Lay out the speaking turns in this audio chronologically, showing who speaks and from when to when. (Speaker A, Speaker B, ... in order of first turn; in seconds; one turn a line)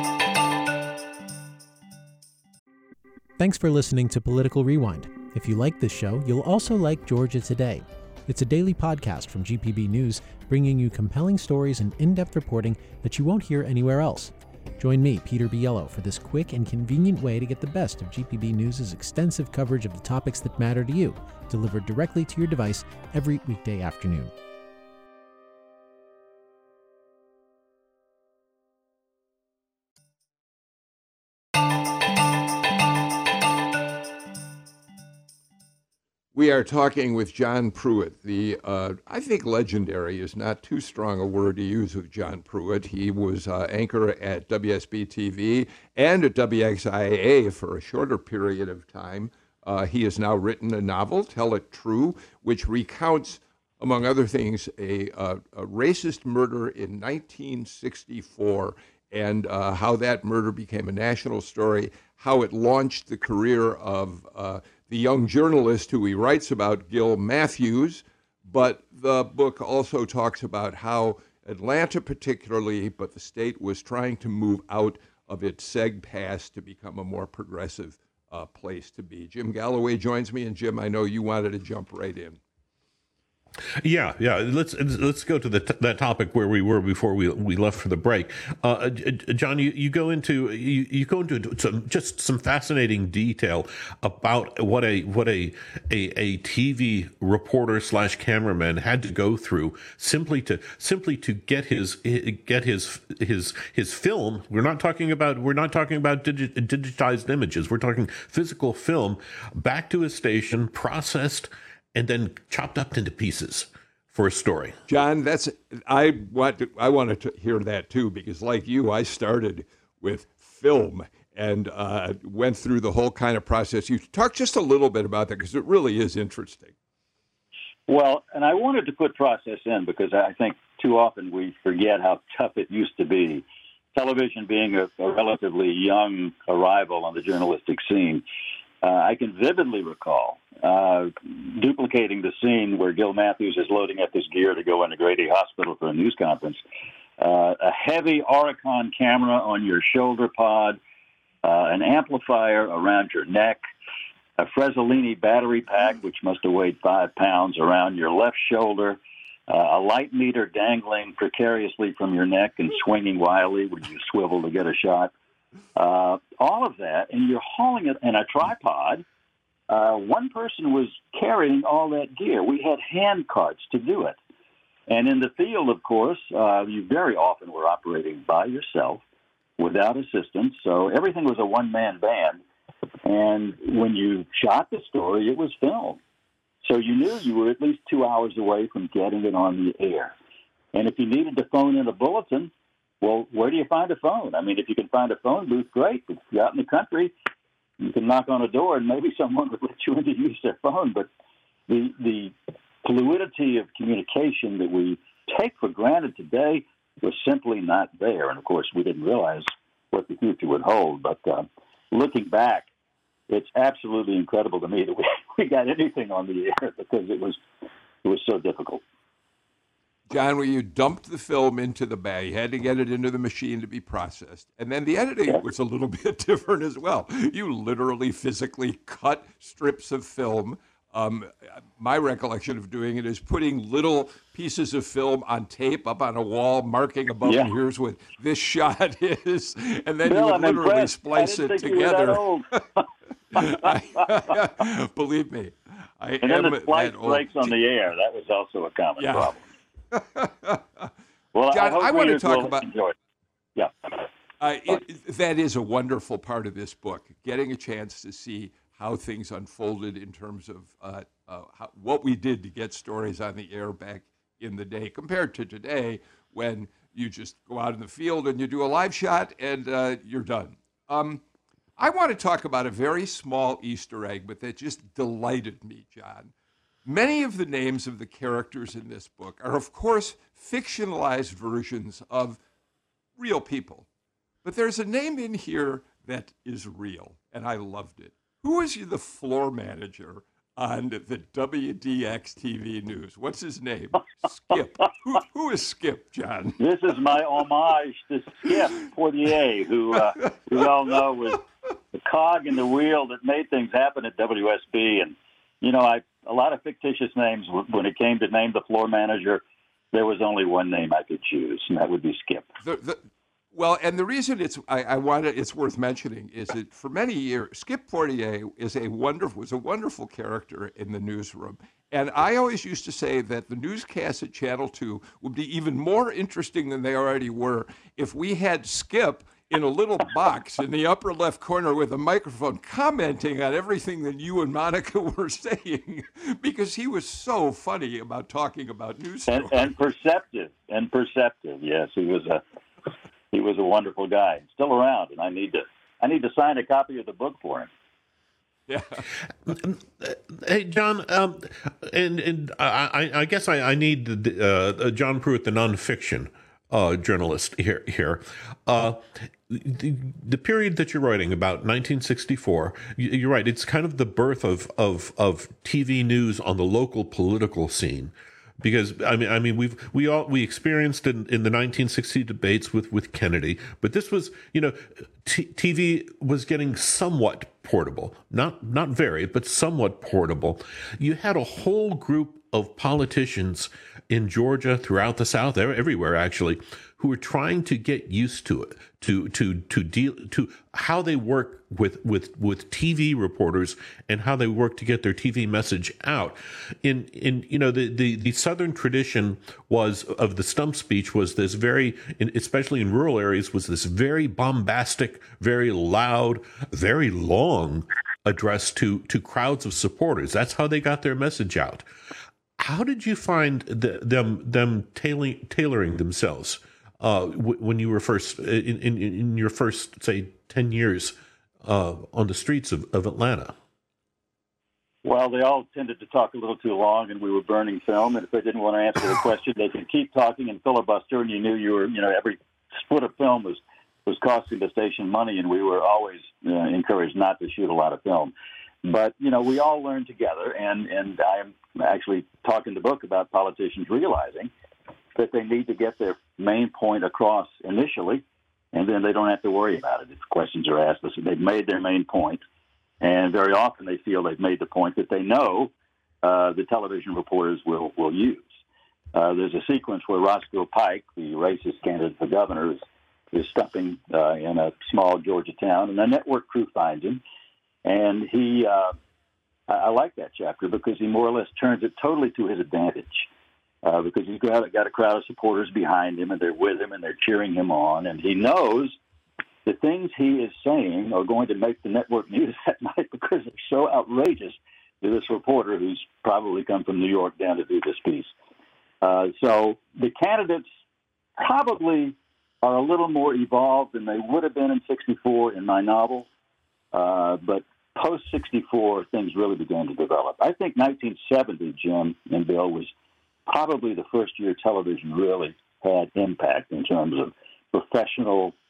Speaker A: 3.4-24.3
Speaker B: 36.3-82.4
Speaker C: 83.8-114.7
Speaker B: 114.9-126.8
Speaker D: 127.9-138.2
Speaker D: 138.8-146.6
Speaker D: 147.2-150.8
Speaker D: 151.4-153.6
Speaker D: 154.4-165.1
Speaker D: 165.8-169.1
Speaker D: 169.7-174.2
Speaker D: 174.9-179.0
Speaker D: 179.6-182.4
Speaker D: 183.1-186.0
Speaker D: 186.6-190.2
Speaker D: 190.7-197.1
Speaker D: 197.8-201.1
Speaker D: 201.7-212.7
Speaker D: 213.3-217.4
Speaker D: 218.0-218.8
Speaker B: 220.1-242.6
Speaker D: 237.2-237.5
Speaker D: 240.1-242.9
Speaker B: 243.3-247.5
Speaker D: 243.4-243.8
Speaker D: 246.2-249.4
Speaker B: 249.0-249.3
Speaker B: 249.9-250.9
Speaker D: 251.3-252.9
Speaker B: 251.5-252.7
Speaker B: 254.4-271.2
Speaker B: 271.8-276.3
Speaker B: 276.9-282.4
Speaker B: 283.2-283.9
Speaker B: 284.4-296.6
Speaker D: 296.6-301.4
Speaker D: 301.9-309.4
Speaker D: 309.9-312.5
Speaker B: 312.6-339.8
Speaker D: 339.3-342.4
Speaker D: 343.3-347.7
Speaker B: 348.7-349.0
Speaker C: 349.5-411.9
Speaker C: 412.6-423.5
Speaker D: 425.1-438.3
Speaker D: 438.8-444.5
Speaker D: 445.2-452.4
Speaker D: 453.0-458.5
Speaker D: 459.1-467.2
Speaker D: 467.9-468.9
Speaker D: 469.7-473.3
Speaker D: 473.8-479.0
Speaker D: 479.7-488.3
Speaker D: 489.0-490.6
Speaker D: 491.4-496.3
Speaker D: 496.9-502.9
Speaker D: 503.5-508.6